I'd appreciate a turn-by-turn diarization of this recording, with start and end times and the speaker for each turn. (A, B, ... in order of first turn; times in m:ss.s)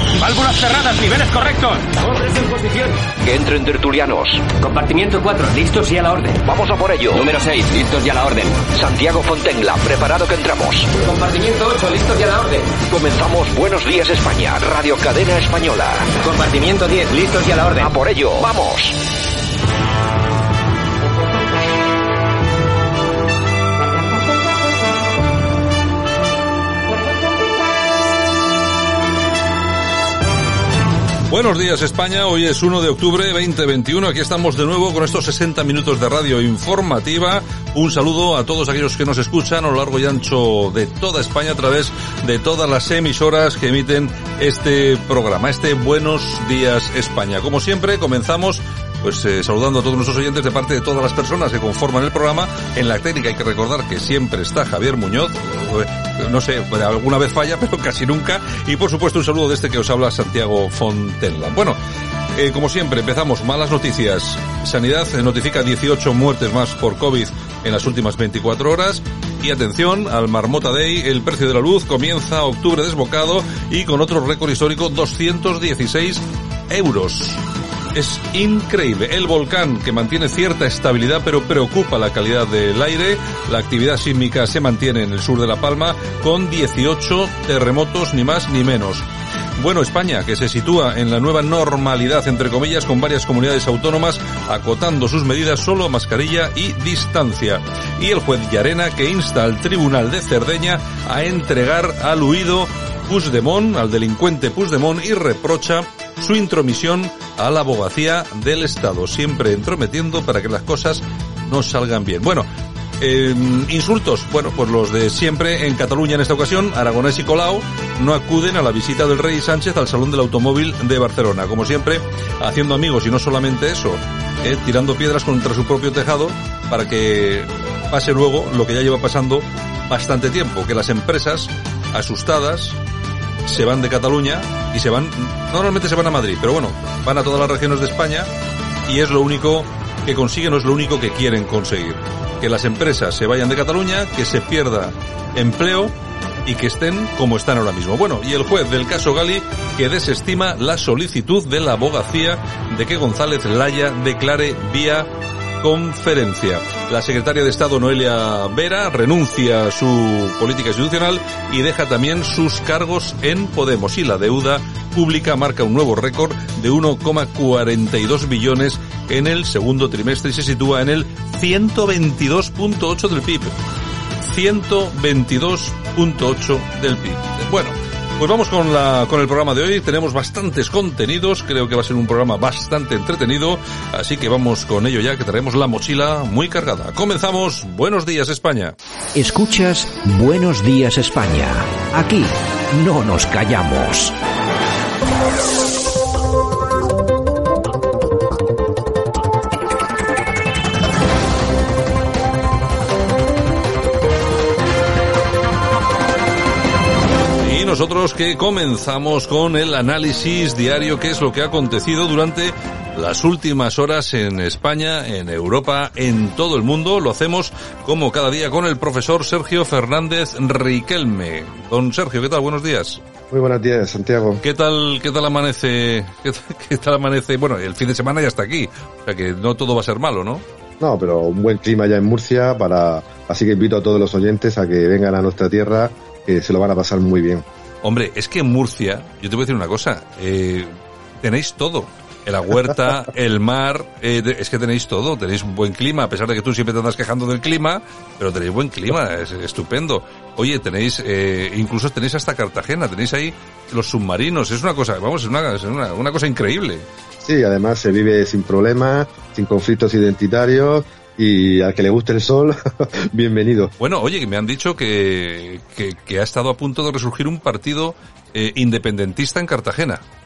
0:00.2-0:03.0 A
0:03.2-0:04.5 B
0:04.6-0:06.4 A
0:06.4-0:07.4 B
0:07.1-0:08.6 A
0:08.6-0:10.9 B
0:11.0-0:12.7 A
0:12.8-0:16.1 B
0:16.2-0:17.9 A
0:17.8-0:19.0 B
0:31.3-1:01.8 C
1:02.3-1:17.4 C
1:17.9-1:29.0 C
1:29.6-1:52.5 C
1:53.0-2:12.8 C
2:13.4-2:18.3 C
2:18.9-2:25.9 C
2:26.4-2:35.1 C
2:35.6-2:53.6 C
2:54.2-3:08.7 C
3:09.1-3:14.1 D
3:27.4-3:43.0 C
3:43.3-3:44.4 E
3:44.4-3:50.4 C
3:50.8-3:57.4 E
3:57.8-4:16.8 C
4:17.2-4:23.7 E
4:23.8-4:30.0 C